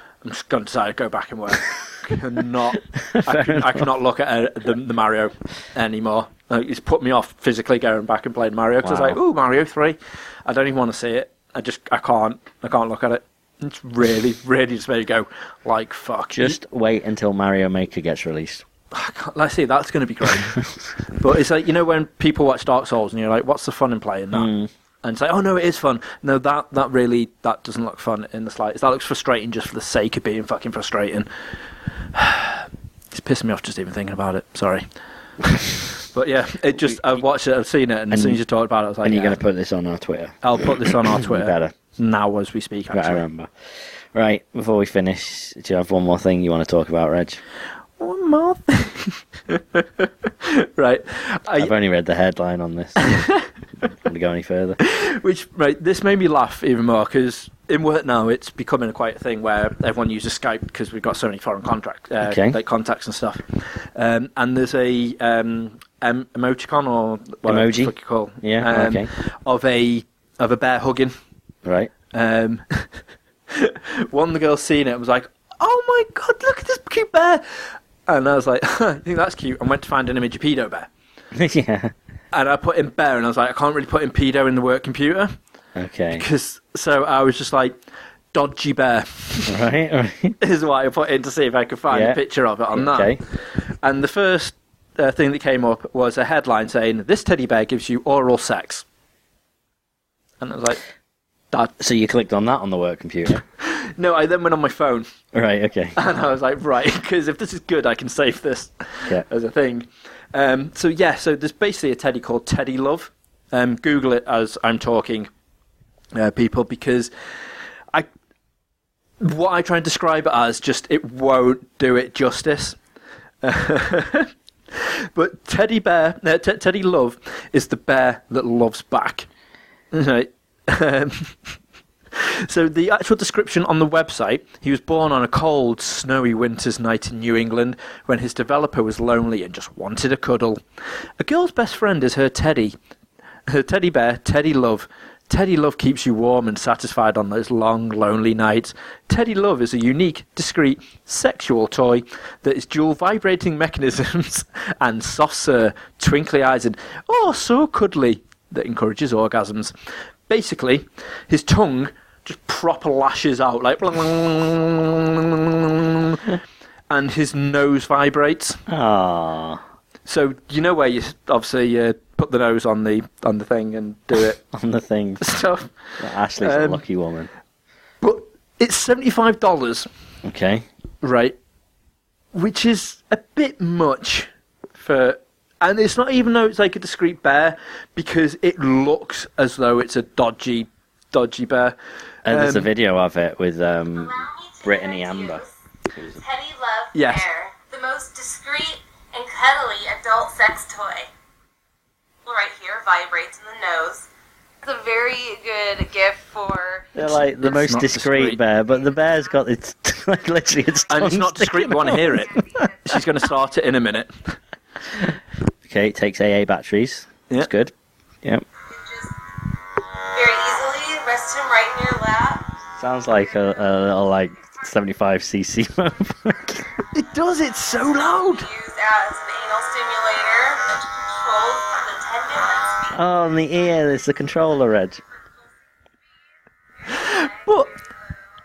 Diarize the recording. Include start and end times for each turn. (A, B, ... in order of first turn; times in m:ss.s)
0:00.2-0:16.6 A
0:03.0-0:03.9 B
0:08.8-0:09.2 B
0:16.3-0:18.6 B
0:18.9-0:24.5 A
0:24.3-0:24.7 B
0:25.0-0:31.3 A
0:32.1-0:34.9 A
0:35.9-0:39.4 A
0:38.1-0:38.4 B
0:39.0-0:41.7 B
0:40.4-0:43.2 A
0:42.9-0:47.4 B
0:48.0-0:51.7 A
0:51.6-0:53.2 B
0:53.0-0:53.5 A
0:54.0-0:54.8 B
0:54.8-1:11.1 A
1:02.2-1:02.6 B
1:07.4-1:09.1 B
1:11.6-1:11.9 B
1:12.1-1:12.9 A
1:13.5-1:20.9 A
1:21.3-1:21.9 B
1:22.3-1:25.3 A
1:25.8-1:26.2 B
1:26.1-1:27.8 A
1:28.3-1:29.6 A
1:29.5-1:30.4 B
1:30.4-1:33.2 A
1:31.9-1:32.2 B
1:32.7-1:33.2 B
1:33.8-1:38.8 A
1:40.4-1:40.8 A
1:41.8-1:43.4 B
1:43.6-1:45.1 A
1:45.3-1:46.0 B
1:46.0-1:55.3 A
1:56.1-1:57.1 A
1:59.2-2:02.8 A
2:03.4-2:09.3 A
2:09.9-2:11.5 A
2:12.1-2:20.6 A
2:21.2-2:22.7 A
2:23.5-2:39.7 A
2:40.3-2:46.4 A
2:46.9-2:48.6 A
2:48.7-2:49.6 B
2:50.0-2:54.4 A
2:54.5-2:55.2 B
2:55.2-2:56.8 A
2:56.0-2:57.3 B
2:58.0-2:59.9 A
3:00.2-3:00.7 B
3:01.0-3:01.4 A
3:02.3-3:11.8 A
3:12.2-3:15.4 B
3:12.3-3:12.7 A
3:14.0-3:15.5 C
3:15.9-3:16.2 B
3:16.1-3:21.1 C
3:16.9-3:17.3 A
3:22.2-3:24.1 C
3:24.6-3:27.0 C
3:27.0-3:33.0 B
3:27.0-3:28.4 A
3:30.9-3:34.4 A
3:32.4-3:32.7 C
3:35.6-3:38.4 B
3:38.7-3:39.2 C
3:40.1-3:42.4 C
3:42.8-3:46.7 B
3:46.9-3:48.5 A
3:47.7-3:53.0 C
3:52.9-3:55.0 B
3:56.8-3:57.9 C
3:57.0-3:57.7 A